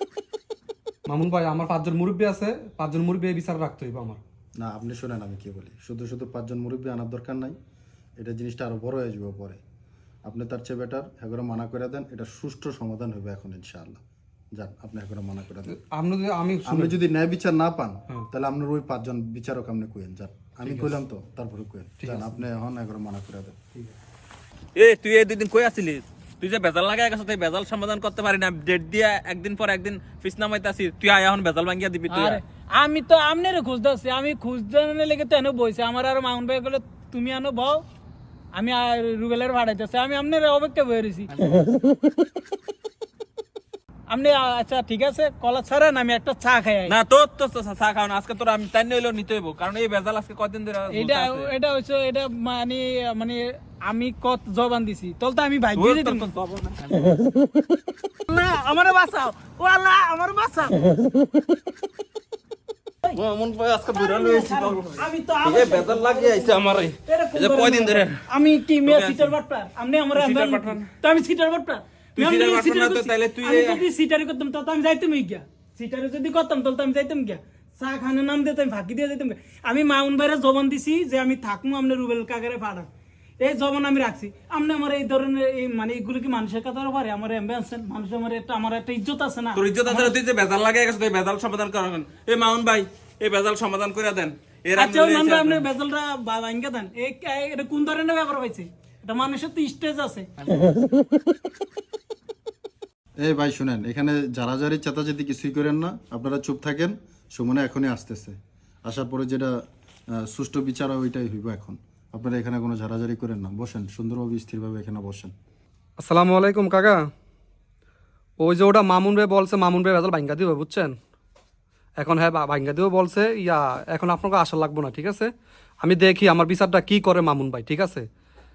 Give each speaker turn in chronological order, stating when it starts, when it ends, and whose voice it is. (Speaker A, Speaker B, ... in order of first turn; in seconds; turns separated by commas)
Speaker A: 1.1-4.2, Speaker B: 4.6-7.6, Speaker B: 8.2-9.6, Speaker B: 10.2-14.0, Speaker B: 14.5-15.8, Speaker A: 15.7-17.0, Speaker B: 16.6-23.6, Speaker A: 20.6-21.0, Speaker A: 22.0-22.4, Speaker C: 24.8-32.4, Speaker D: 32.1-37.8, Speaker D: 38.5-41.3, Speaker D: 44.1-47.0, Speaker C: 46.9-51.5, Speaker D: 50.9-56.3, Speaker C: 55.8-57.0, Speaker D: 58.3-60.9, Speaker C: 63.1-68.2, Speaker D: 63.9-82.9, Speaker C: 68.8-69.3, Speaker C: 70.2-70.8, Speaker C: 72.2-73.8, Speaker D: 83.4-90.2, Speaker C: 89.5-95.7, Speaker D: 94.8-100.3, Speaker B: 103.2-109.5, Speaker B: 110.2-115.3, Speaker A: 116.0-117.1, Speaker A: 118.4-121.0, Speaker A: 122.0-128.1